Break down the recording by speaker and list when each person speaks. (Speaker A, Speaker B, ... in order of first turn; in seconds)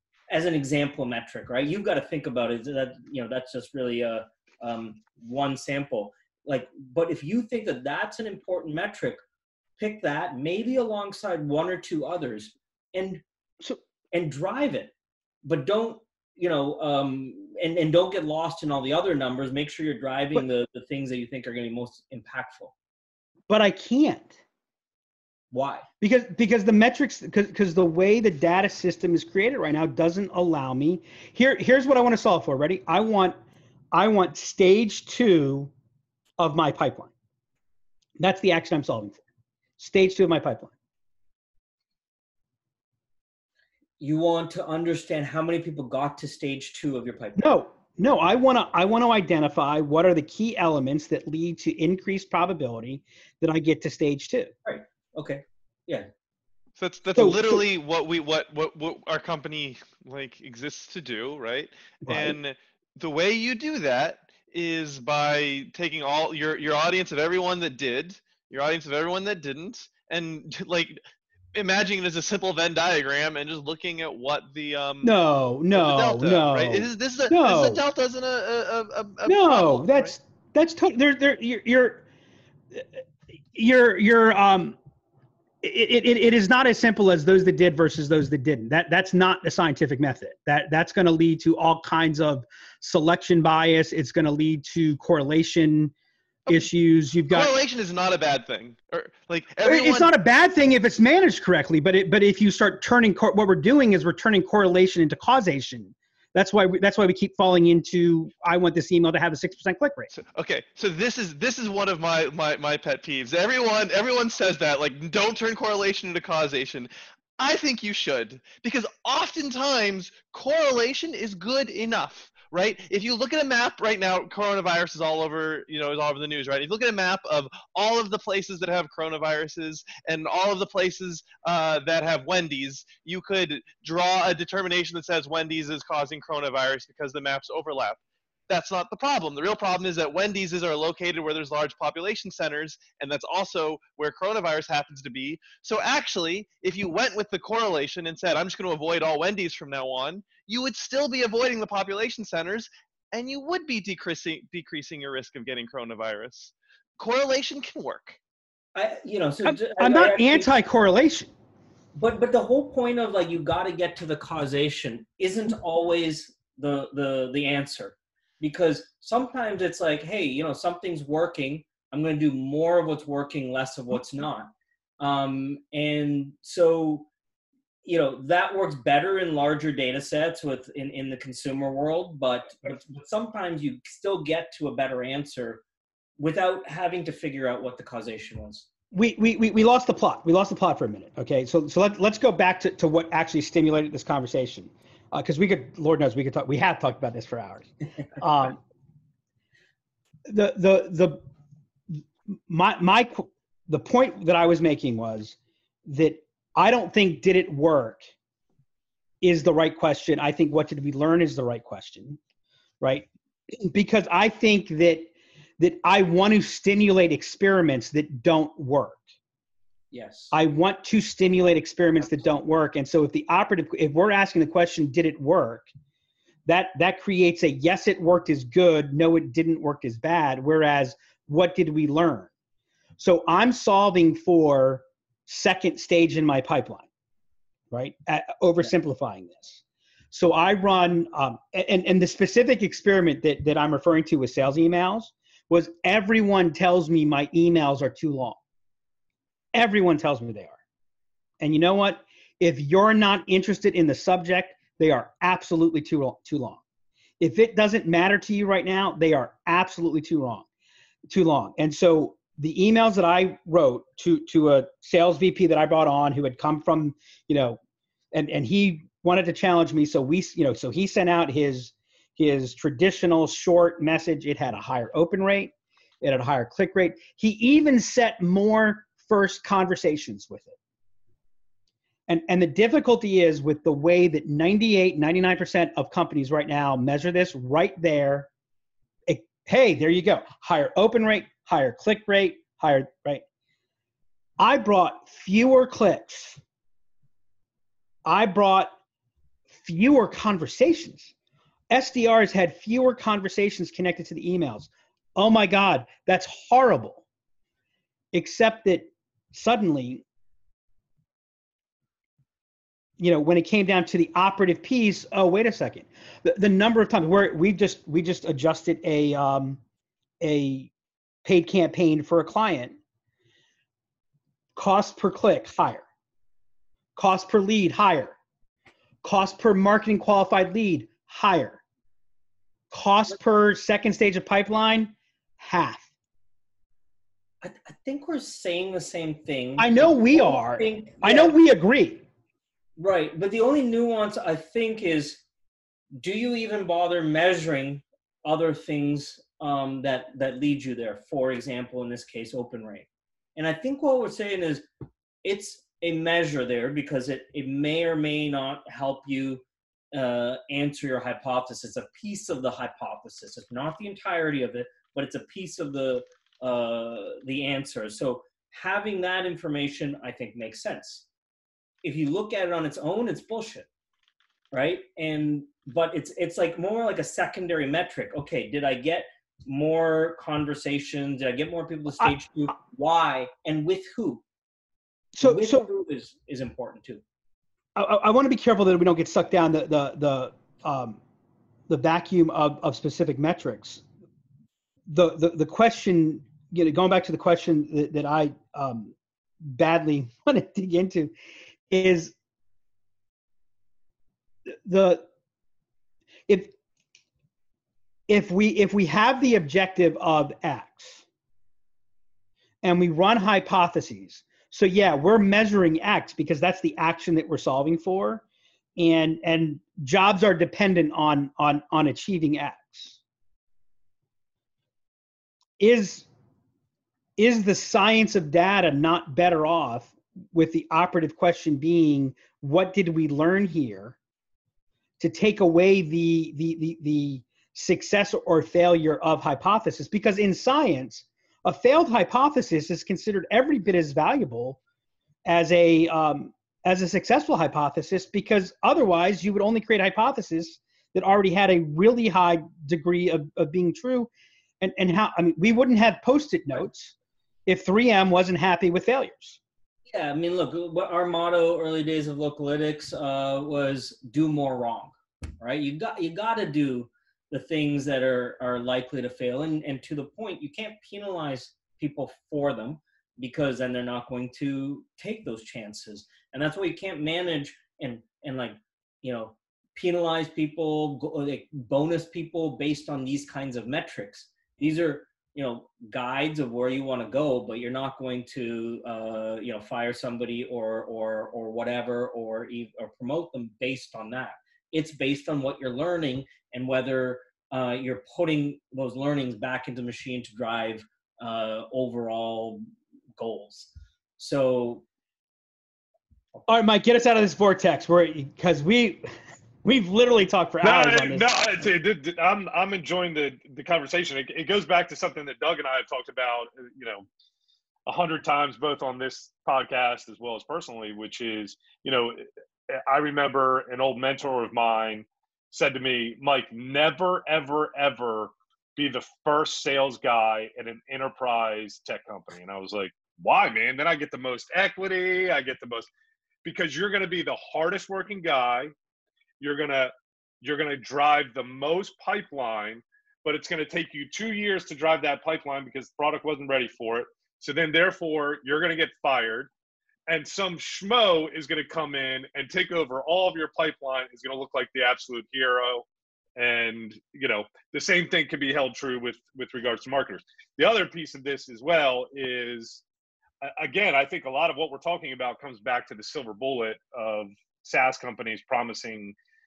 Speaker A: 0.3-9.2, 9.8-13.2, 14.1-14.9, 15.4-22.7, 25.5-25.9, 44.0-47.4, 54.6-56.1, 158.7-160.5, 161.9-177.1, 177.8-185.6, 186.2-188.7, 219.9-220.3, 337.4-341.3, 342.8-345.2, 346.0-354.7, 355.2-371.1, 371.8-373.7, 374.5-384.2, 385.2-387.0, 459.9-502.6, 503.2-504.8
Speaker B: 23.5-24.4, 26.0-33.4, 33.9-35.7, 36.4-37.1, 38.2-39.2, 39.8-40.7, 47.4-54.5, 57.1-57.6, 62.0-62.4, 75.0-77.8, 79.2-82.0, 83.5-84.8, 85.6-95.9, 96.5-97.5, 99.6-110.1, 159.4-161.3, 188.9-198.6, 200.3-201.2, 202.3-208.1, 209.2-212.2, 212.8-219.0, 220.3-225.7, 226.4-232.3, 233.0-236.9, 237.7-239.6, 240.1-248.4, 249.5-250.6, 251.4-256.6, 257.2-260.4, 261.1-267.6, 268.1-280.6, 282.1-288.3, 289.1-293.2, 294.4-296.4, 298.0-298.7, 299.6-301.1, 301.7-307.0, 308.1-310.0, 313.0-319.6, 320.2-320.7, 321.2-322.8, 324.6-325.8, 326.9-328.1, 329.0-331.6, 332.7-335.9, 339.6-342.0, 385.1-385.7, 387.7-391.0, 391.7-393.8, 394.9-401.1, 401.7-402.1, 404.5-405.1, 406.3-406.5, 408.1-411.0, 412.6-418.2, 418.8-423.0, 425.6-426.1, 427.2-433.9, 435.0-444.6, 445.2-454.1, 454.6-456.9, 457.4-459.4, 506.5-509.1, 509.6-511.7
Speaker C: 56.8-71.0, 71.5-75.1, 75.7-80.1, 97.3-100.1, 110.1-158.2
Speaker D: 510.6-517.0, 517.9-535.9, 536.4-538.7, 539.4-549.5, 550.1-562.8, 563.4-569.1